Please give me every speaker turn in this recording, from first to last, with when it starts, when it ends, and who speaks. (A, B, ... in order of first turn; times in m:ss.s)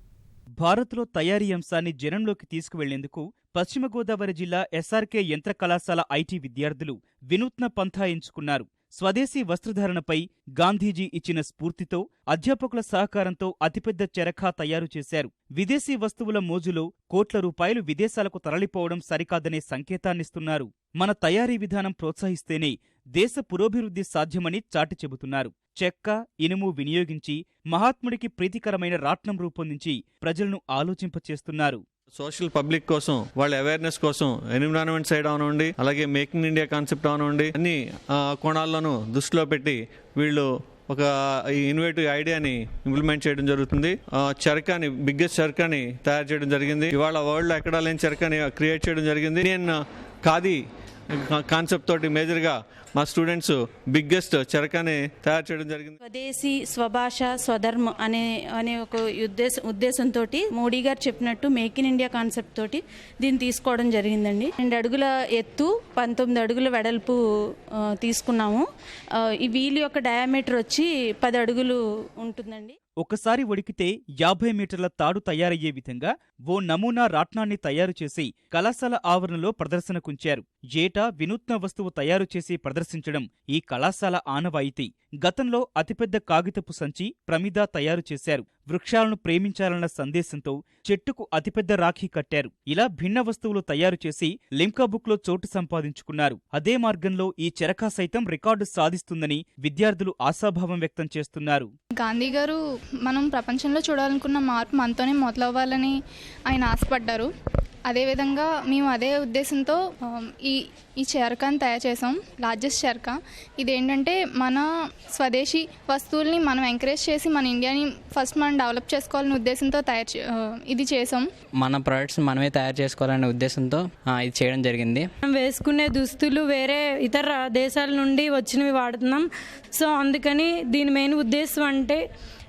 0:00.6-0:31.8 A
0:32.2-0:49.7 B
0:50.2-0:50.6 B
0:51.3-0:56.0 B
0:56.0-1:07.2 C
1:08.0-1:08.6 C
1:09.4-1:12.8 C
1:13.0-1:41.7 A
1:42.0-1:46.0 D
1:46.5-1:47.3 D
1:47.9-2:01.2 D
2:01.6-2:05.1 E
2:05.3-2:12.0 F